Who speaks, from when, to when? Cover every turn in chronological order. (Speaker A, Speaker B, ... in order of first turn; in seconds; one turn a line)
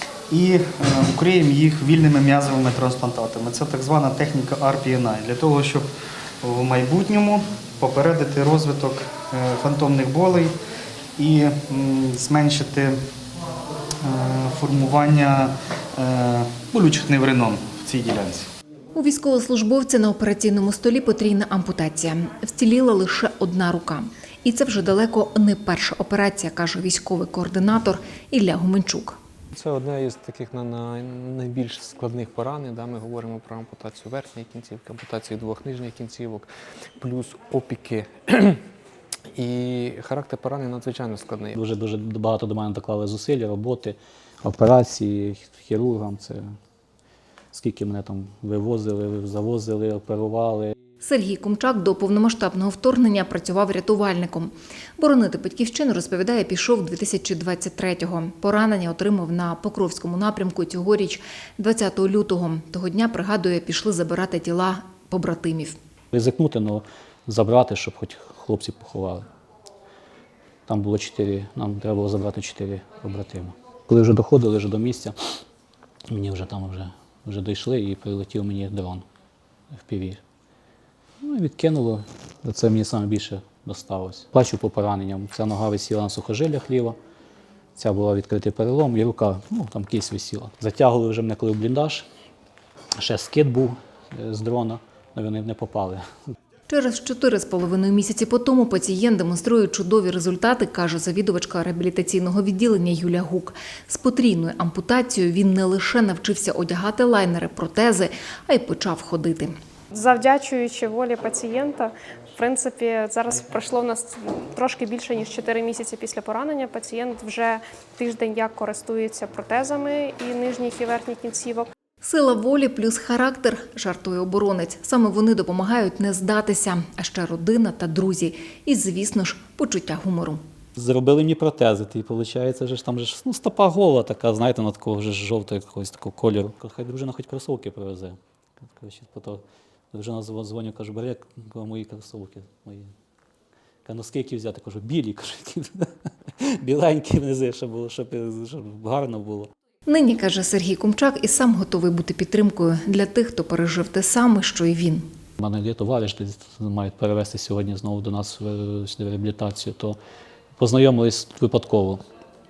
Speaker A: 0.3-5.9
Speaker A: 6.4-10.5
Speaker A: 11.2-13.0
Speaker A: 14.0-18.5
Speaker B: 18.9-29.2
Speaker C: 29.5-36.5
Speaker C: 37.0-38.6
Speaker C: 39.3-41.6
Speaker D: 41.5-46.4
Speaker D: 47.5-50.7
Speaker B: 51.0-65.8
Speaker D: 66.1-69.2
Speaker D: 70.7-75.1
Speaker D: 76.1-79.0
Speaker D: 79.8-80.2
Speaker D: 81.2-87.0
Speaker D: 87.8-92.0
Speaker D: 93.0-96.0
Speaker B: 96.7-109.5
Speaker E: 109.9-121.7
Speaker B: 122.0-130.4
Speaker D: 130.8-142.9
Speaker D: 143.8-149.5
Speaker B: 149.8-155.0
Speaker D: 155.4-160.0
Speaker D: 160.6-162.0